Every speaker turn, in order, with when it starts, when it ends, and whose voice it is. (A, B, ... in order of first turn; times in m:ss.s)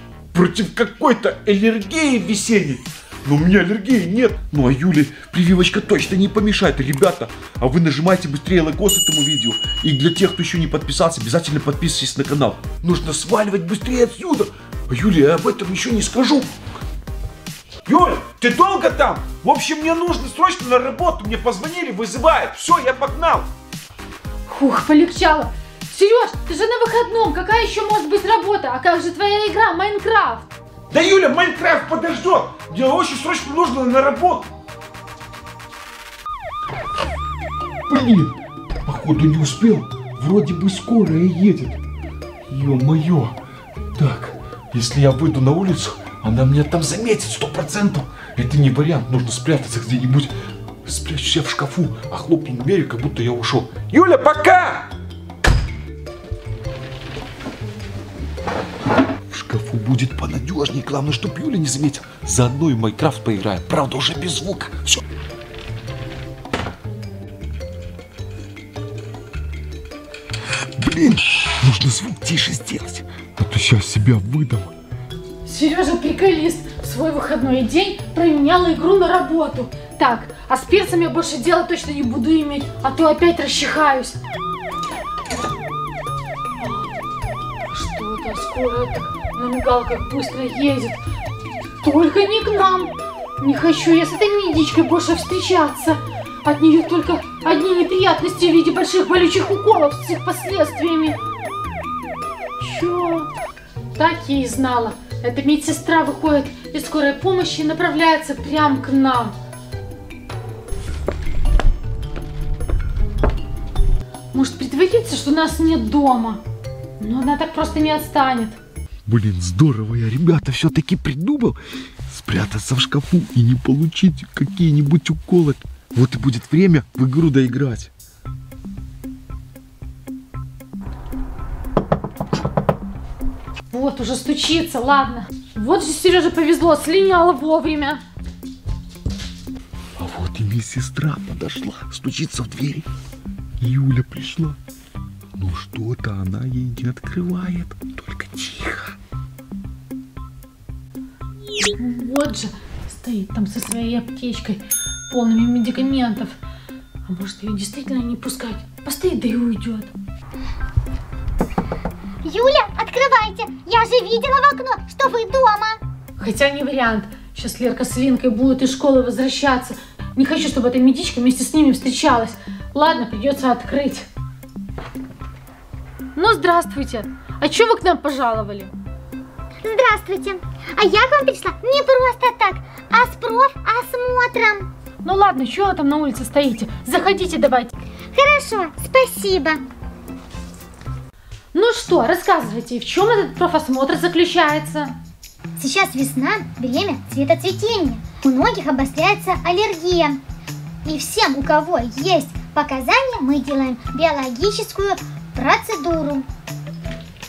0:00.3-0:16.5 A
0:17.9-0:23.5 A
0:24.5-0:30.5 B
0:30.9-0:34.5 A
0:37.9-0:41.8 A
0:42.5-0:43.4 A
0:44.0-0:50.3 A
0:50.8-0:54.9 A
0:59.3-1:05.0 A
1:10.8-1:14.7 A
1:15.4-1:24.2 B
1:26.6-1:26.9 B
1:27.7-1:31.0 B
1:31.8-1:41.2 B
1:42.6-1:43.3 B
1:44.0-1:49.3 B
1:54.3-1:56.4 B
1:57.0-1:58.6 B
1:59.1-2:07.9 A
2:13.7-2:18.0 B
2:20.0-2:22.9 A
2:23.6-2:24.6 A
2:25.4-2:29.0 A
2:31.8-2:36.4 B
2:37.1-2:39.9 B
2:42.2-2:45.8 C
2:46.2-2:54.1 B
2:56.2-2:58.7 B
2:59.6-3:04.7 C
3:05.0-3:07.7 B
3:08.1-3:09.6 C
3:11.5-3:15.0 B
3:15.6-3:20.2 C
3:20.8-3:26.3 C